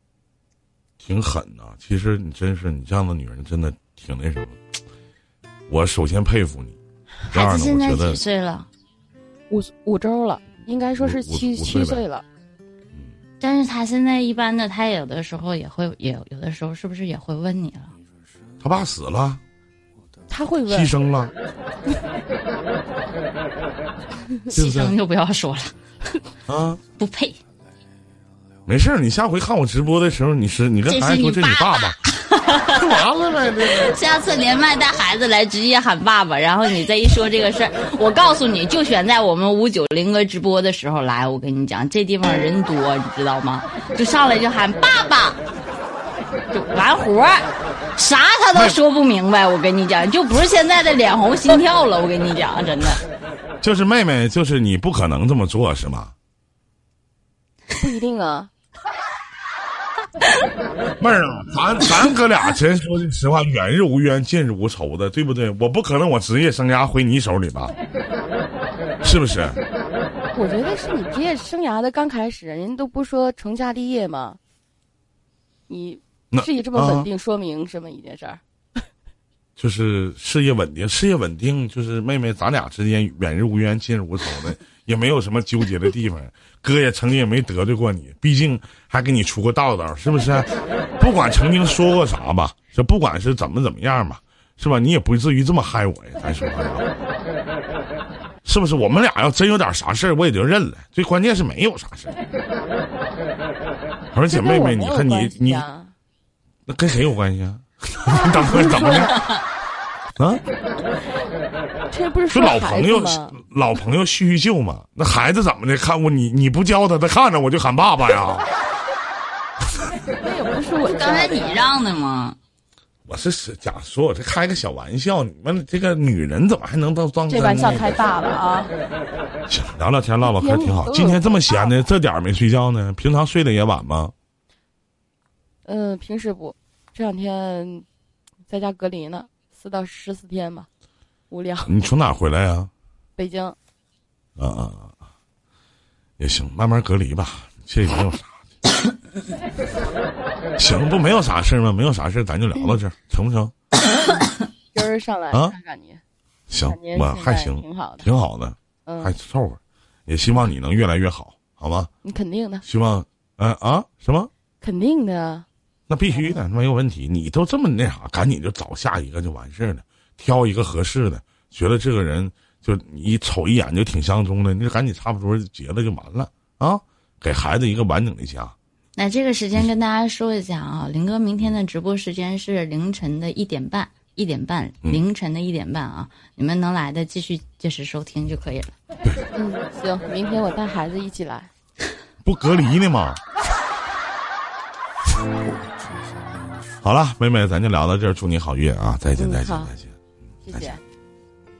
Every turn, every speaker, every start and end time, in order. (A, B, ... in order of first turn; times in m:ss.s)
0:01.0-0:04.6 A
0:05.7-0:06.8 A
0:07.3-0:08.2 A
0:07.3-0:08.7 B
0:09.5-0:12.2 C
0:11.0-0:12.0 A
0:13.4-0:17.9 B
0:18.6-0:19.4 A
0:20.3-0:20.9 C
0:20.7-0:21.3 A
0:24.5-0:25.7 B
0:24.5-0:25.0 A
0:26.5-0:26.8 A
0:27.0-0:27.4 B
0:28.6-0:32.0 A
0:30.9-0:32.8 B
0:32.7-0:33.9 A
0:33.6-0:45.4 B
0:46.5-0:53.0 B
0:48.5-0:48.8 A
0:53.6-0:56.1 A
0:57.8-0:58.5 C
1:01.0-1:07.7 A
1:09.0-1:09.6 A
1:10.3-1:14.4 C
1:15.7-1:18.4 C
1:16.3-1:17.1 A
1:19.6-1:36.9 A
1:38.4-1:42.2 A
1:44.1-1:45.6 A
1:44.3-1:45.9 C
1:46.7-1:49.1 A
1:48.2-1:49.2 C
1:49.1-1:49.4 B
1:50.2-1:50.4 A
1:51.9-1:53.4 C
1:52.3-1:58.5 A
2:00.2-2:01.7 C
2:00.8-2:02.4 B
2:03.0-2:08.0 A
2:07.3-2:08.7 C
2:09.5-2:14.1 A
2:10.2-2:11.8 C
2:15.6-2:17.8 C
2:18.5-2:20.7 C
2:21.3-2:21.7 C
2:21.6-2:22.7 A
2:23.2-2:23.5 C
2:24.4-2:24.9 A
2:26.2-2:28.4 A
2:30.6-2:33.5 A
2:34.7-2:36.0 C
2:36.5-2:41.9 A
2:36.6-2:38.0 C
2:38.8-2:39.1 C
2:42.0-2:42.6 C
2:42.6-2:44.3 A
2:44.6-2:45.4 C
2:45.9-2:58.5 A
2:46.1-2:46.4 C
2:59.0-3:08.7 B
3:09.4-3:11.5 C
3:12.2-3:13.2 A
3:16.8-3:19.9 A
3:19.2-3:19.7 C
3:20.4-3:20.8 C
3:20.5-3:20.8 A